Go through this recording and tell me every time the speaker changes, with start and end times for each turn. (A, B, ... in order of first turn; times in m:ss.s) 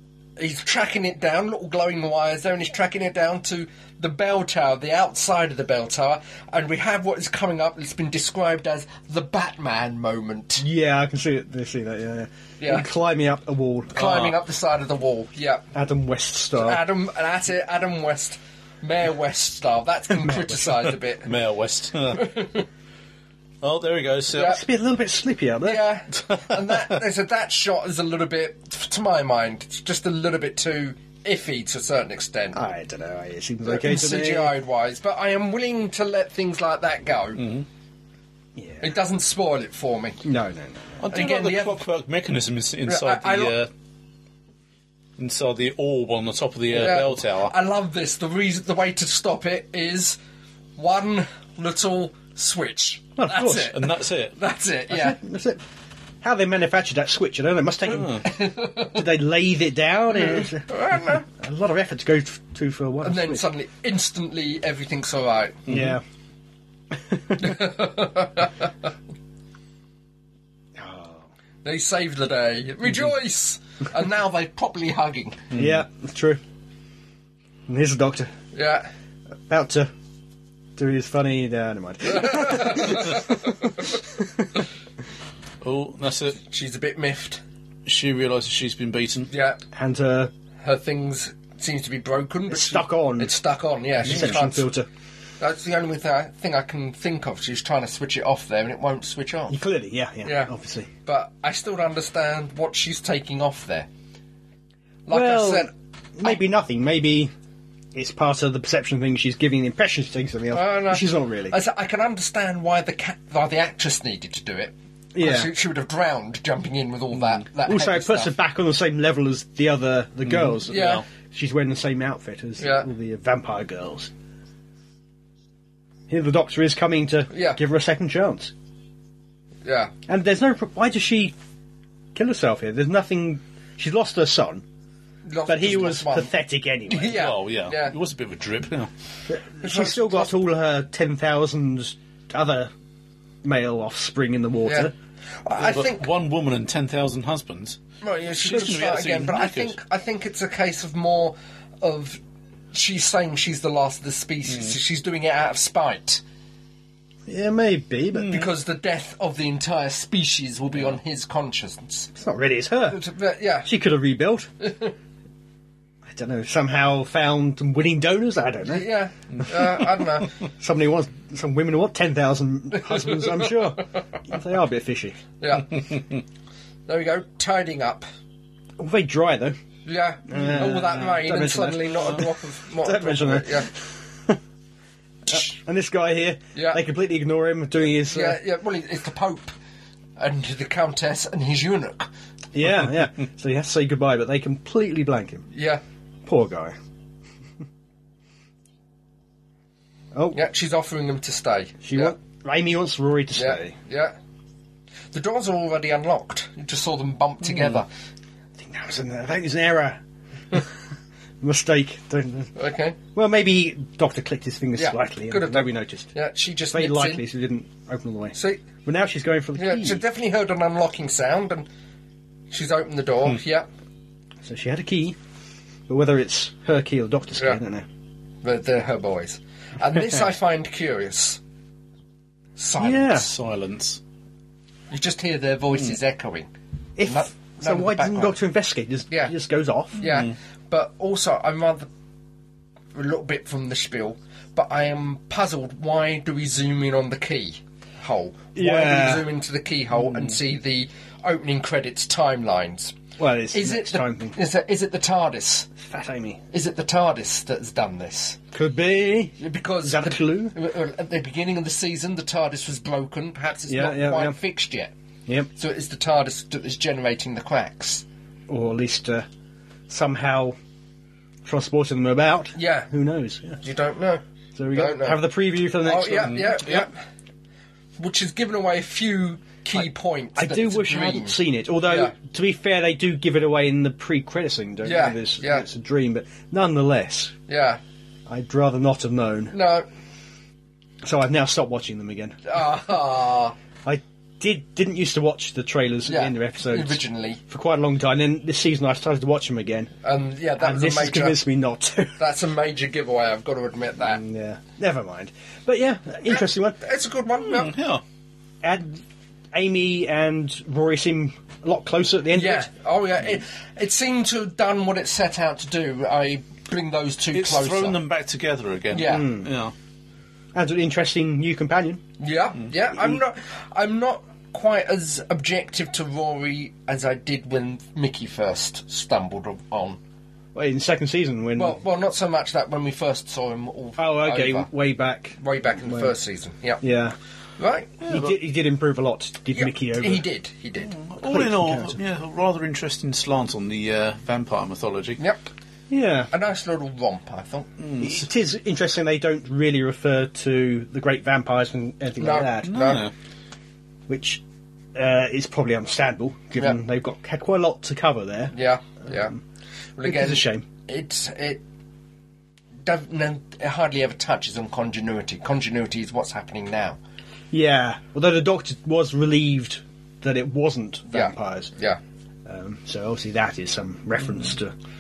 0:00.4-0:10.6 A
0:10.6-0:14.0 B
0:12.6-0:12.9 A
0:13.9-0:15.6 A
0:14.0-0:14.4 C
0:15.7-0:16.8 B
0:16.6-0:21.3 A
0:20.1-0:20.7 B
0:21.2-0:22.4 C
0:22.1-0:22.6 A
0:23.6-0:24.6 C
0:24.3-0:24.6 A
0:24.4-0:25.8 B
0:25.6-0:32.6 A
0:26.3-0:26.9 C
0:32.5-0:34.5 B
0:33.6-0:37.4 A
0:37.4-0:37.7 C
0:38.6-0:38.8 B
0:38.8-0:40.2 A
0:40.2-0:41.1 B
0:41.0-0:43.7 C
0:41.1-0:41.8 A
0:42.9-0:43.6 A
0:45.2-0:47.5 C
0:46.7-0:50.2 A
0:50.8-0:55.2 A
0:53.2-0:53.7 B
0:53.5-0:54.4 C
0:54.9-0:55.6 B
0:56.2-1:03.5 B
0:57.9-0:58.3 C
0:58.2-0:59.0 A
1:00.1-1:01.2 A
1:03.0-1:05.7 A
1:05.7-1:06.0 C
1:05.7-1:06.0 B
1:06.9-1:07.6 B
1:07.4-1:08.7 A
1:10.8-1:11.3 B
1:11.6-1:15.5 A
1:15.5-1:15.8 C
1:15.5-1:16.4 B
1:17.7-1:18.3 B
1:18.5-1:18.9 A
1:19.5-1:19.9 B
1:20.8-1:24.6 B
1:22.1-1:23.8 A
1:25.6-1:26.4 C
1:26.4-1:27.4 A
1:27.9-1:29.3 C
1:29.3-1:29.6 A
1:29.7-1:30.3 B
1:30.6-1:34.7 A
1:32.5-1:33.3 B
1:34.0-1:34.9 B
1:35.4-1:39.6 A
1:39.5-1:40.9 B
1:40.2-1:40.5 A
1:41.0-1:43.9 A
1:45.1-1:45.7 A
1:45.1-1:47.3 B
1:47.9-1:51.6 B
1:50.5-1:58.3 A
1:55.1-1:55.5 B
1:57.7-2:04.1 B
2:00.2-2:01.0 C
2:00.7-2:01.0 A
2:02.6-2:02.9 A
2:06.1-2:08.5 B
2:07.3-2:07.6 A
2:09.6-2:09.9 A
2:10.1-2:11.4 B
2:12.2-2:14.6 B
2:15.3-2:16.3 A
2:15.5-2:17.2 B
2:16.9-2:18.0 A
2:17.1-2:18.9 C
2:19.3-2:22.7 B
2:19.6-2:20.3 A
2:23.4-2:24.9 B
2:24.6-2:24.9 A
2:25.4-2:26.1 A
2:25.6-2:27.8 C
2:28.0-2:32.2 A
2:28.4-2:29.8 C
2:32.7-2:36.2 A
2:37.3-2:38.5 B
2:38.1-2:42.1 A
2:42.2-2:43.0 B
2:42.9-2:43.7 A
2:43.6-2:44.5 B
2:44.6-2:44.9 A
2:46.0-2:48.9 B
2:48.6-2:50.3 A
2:50.6-2:55.2 B
2:52.7-2:53.8 A
2:55.4-2:55.9 A
2:56.9-2:58.1 A
2:58.8-2:59.6 B
2:59.9-3:03.7 A
3:00.3-3:04.4 B
3:05.3-3:08.4 B
3:05.3-3:05.6 A
3:06.6-3:06.8 A
3:08.1-3:09.5 A
3:10.2-3:12.1 A
3:12.5-3:15.5 B
3:15.5-3:15.8 A
3:16.2-3:16.8 B
3:20.1-3:20.4 B
3:20.3-3:22.1 A
3:21.8-3:23.8 B
3:23.4-3:24.2 A
3:25.1-3:27.9 A
3:28.6-3:30.0 B
3:31.4-3:32.5 B
3:32.6-3:33.0 A
3:33.2-3:36.1 B
3:34.8-3:37.2 A
3:36.7-3:40.0 B
3:38.4-3:38.7 A
3:39.6-3:41.7 A
3:42.5-3:43.7 A
3:44.4-3:45.2 B
3:45.9-3:47.9 B
3:48.4-3:51.4 A
3:52.6-3:53.3 A
3:52.8-3:53.3 B
3:53.1-3:54.0 C
3:54.9-3:56.5 A
3:57.0-4:00.0 B
3:57.0-3:58.4 A
4:00.0-4:01.9 A
4:00.0-4:00.3 C
4:03.0-4:13.0 A
4:08.6-4:09.3 B
4:13.2-4:14.4 B
4:13.5-4:15.7 A
4:15.8-4:16.4 B
4:16.5-4:18.4 A
4:18.5-4:20.6 B
4:19.4-4:24.9 A
4:23.7-4:24.4 B
4:25.6-4:28.0 A
4:28.5-4:29.2 B
4:29.9-4:30.6 B
4:31.4-4:33.6 B
4:32.6-4:32.9 A
4:33.6-4:34.2 A
4:34.6-4:36.8 B
4:34.7-4:35.2 A
4:35.8-4:36.9 A
4:38.0-4:42.1 A
4:40.4-4:47.4 B
4:44.8-4:45.6 A
4:47.5-4:47.8 A
4:48.3-4:49.6 B
4:49.5-4:49.9 A
4:51.0-4:52.4 B
4:52.5-4:53.6 A
4:53.8-4:59.9 B
4:56.1-4:57.4 A
5:00.0-5:01.4 A
5:00.6-5:02.2 B
5:02.2-5:04.2 A
5:04.0-5:06.8 B
5:06.3-5:07.7 A
5:07.5-5:08.0 C
5:08.6-5:12.7 B
5:12.3-5:18.0 A
5:17.3-5:19.7 C
5:18.9-5:19.3 A
5:19.0-5:19.5 B
5:20.6-5:22.0 B
5:22.2-5:30.0 A
5:30.5-5:31.8 B
5:31.6-5:34.7 A
5:34.0-5:36.1 B
5:35.4-5:36.8 A
5:36.8-5:37.2 B
5:37.6-5:38.0 A
5:38.1-5:40.2 B
5:39.6-5:40.9 A
5:40.9-5:45.2 C
5:41.3-5:42.0 B
5:45.2-5:45.4 A
5:45.9-5:46.3 B
5:46.3-5:47.7 A
5:47.8-5:48.2 C
5:48.0-5:52.7 B
5:52.2-5:53.1 A
5:52.7-5:53.1 C
5:54.1-5:54.4 B
5:55.0-5:58.5 B
5:58.5-5:59.4 A
6:00.0-6:01.6 A
6:00.0-6:00.6 B
6:02.8-6:07.0 A
6:07.5-6:11.7 B
6:11.1-6:12.0 A
6:12.5-6:14.8 B